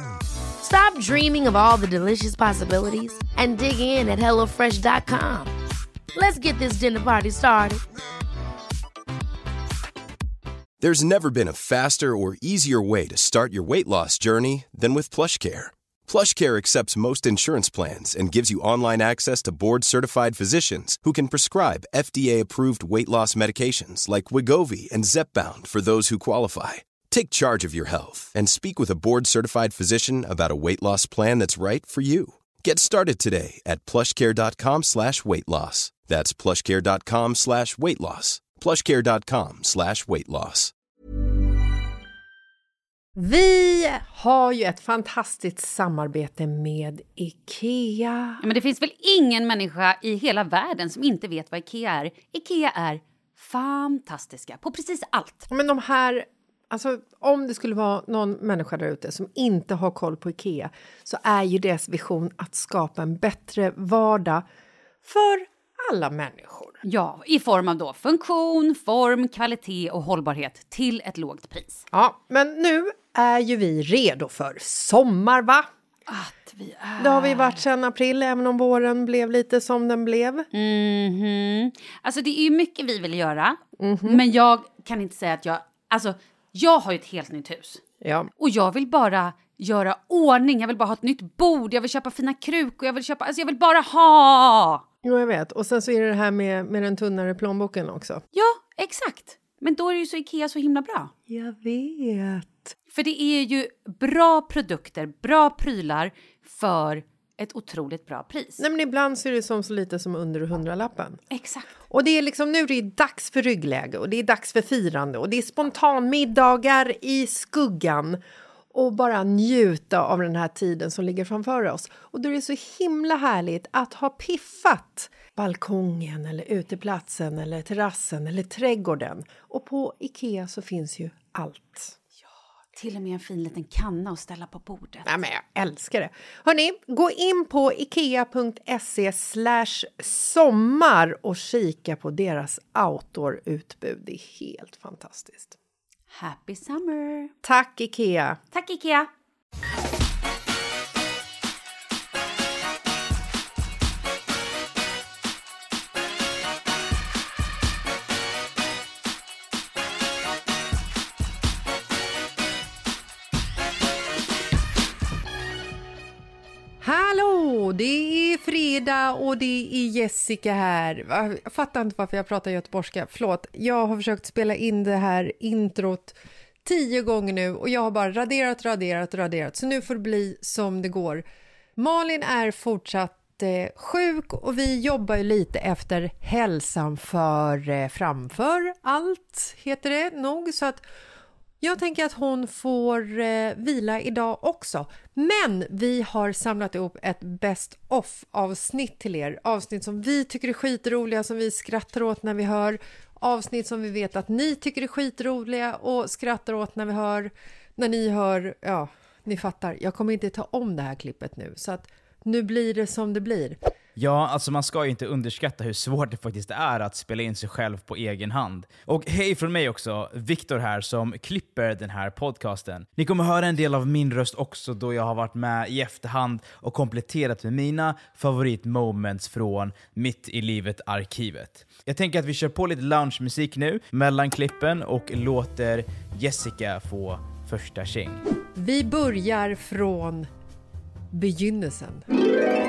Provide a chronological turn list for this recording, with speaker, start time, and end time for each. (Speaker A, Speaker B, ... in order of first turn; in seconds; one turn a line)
Speaker A: 0.6-5.5
Speaker A: 6.1-7.8
Speaker B: 10.8-40.7
Speaker C: 43.1-48.4
Speaker D: 48.4-55.5
Speaker C: 55.5-64.5
Speaker C: 65.0-66.8
Speaker D: 66.8-71.8
Speaker C: 71.9-75.7
Speaker D: 76.1-77.6
Speaker C: 77.0-80.5
Speaker D: 80.5-87.8
Speaker C: 83.8-84.2
Speaker C: 88.0-88.3
Speaker D: 88.4-94.8
Speaker C: 95.0-98.2
Speaker D: 98.3-101.1
Speaker C: 101.3-102.7
Speaker D: 102.9-108.6
Speaker C: 108.6-111.2
Speaker D: 111.3-111.7
Speaker C: 111.9-118.2
Speaker C: 118.7-132.0
Speaker D: 132.7-135.1
Speaker C: 135.1-145.6
Speaker D: 146.1-147.3
Speaker C: 147.4-148.4
Speaker D: 148.5-149.1
Speaker C: 166.8-181.2
Speaker C: 181.8-190.8
Speaker C: 191.6-213.6
Speaker E: 213.9-238.2
Speaker C: 238.6-240.3
Speaker C: 241.1-242.1